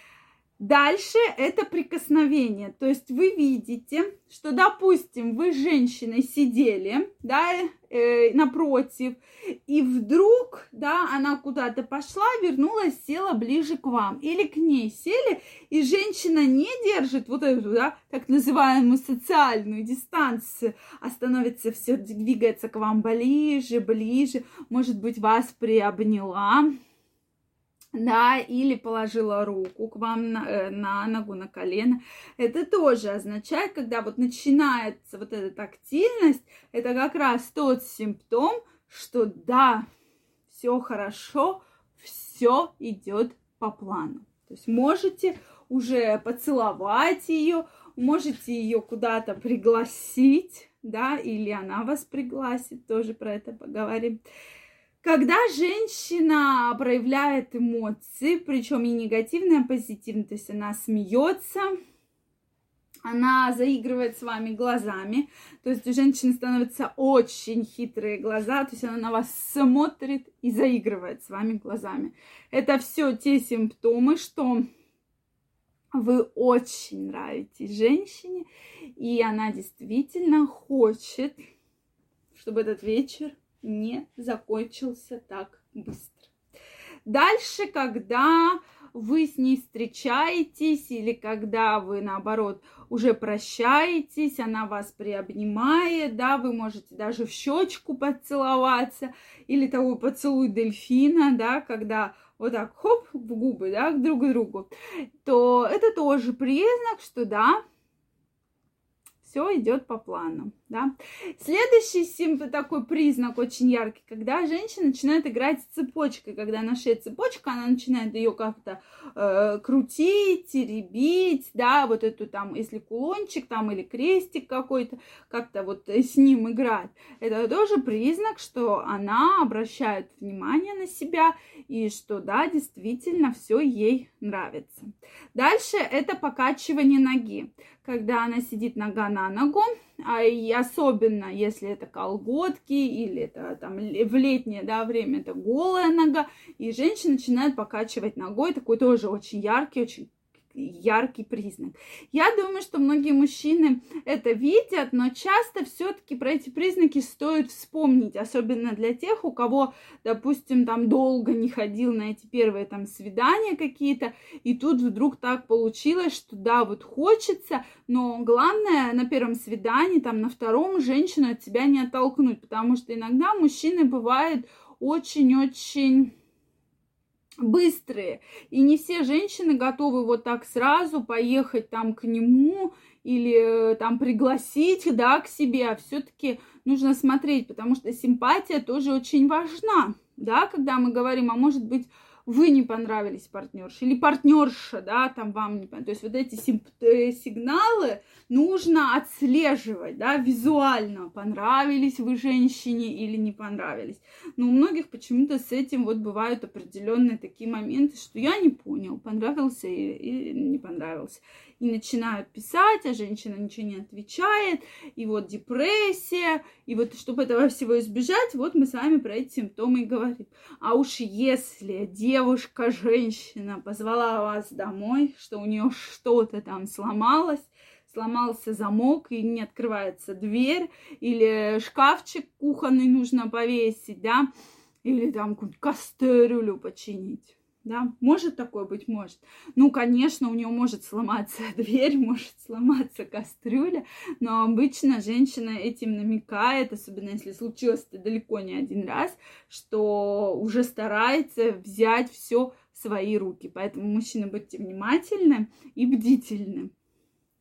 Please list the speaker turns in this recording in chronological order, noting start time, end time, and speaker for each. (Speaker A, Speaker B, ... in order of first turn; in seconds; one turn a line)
Speaker A: 0.6-26.7
Speaker A: 27.9-39.9
Speaker A: 40.5-54.2
Speaker A: 55.0-61.7
Speaker A: 63.0-74.7
Speaker A: 75.9-78.5
Speaker A: 79.0-81.4
Speaker A: 82.3-86.3
Speaker A: 87.0-104.7
Speaker A: 105.2-107.6
Speaker A: 109.2-176.1
Speaker A: 177.4-234.3
Speaker A: 234.8-256.7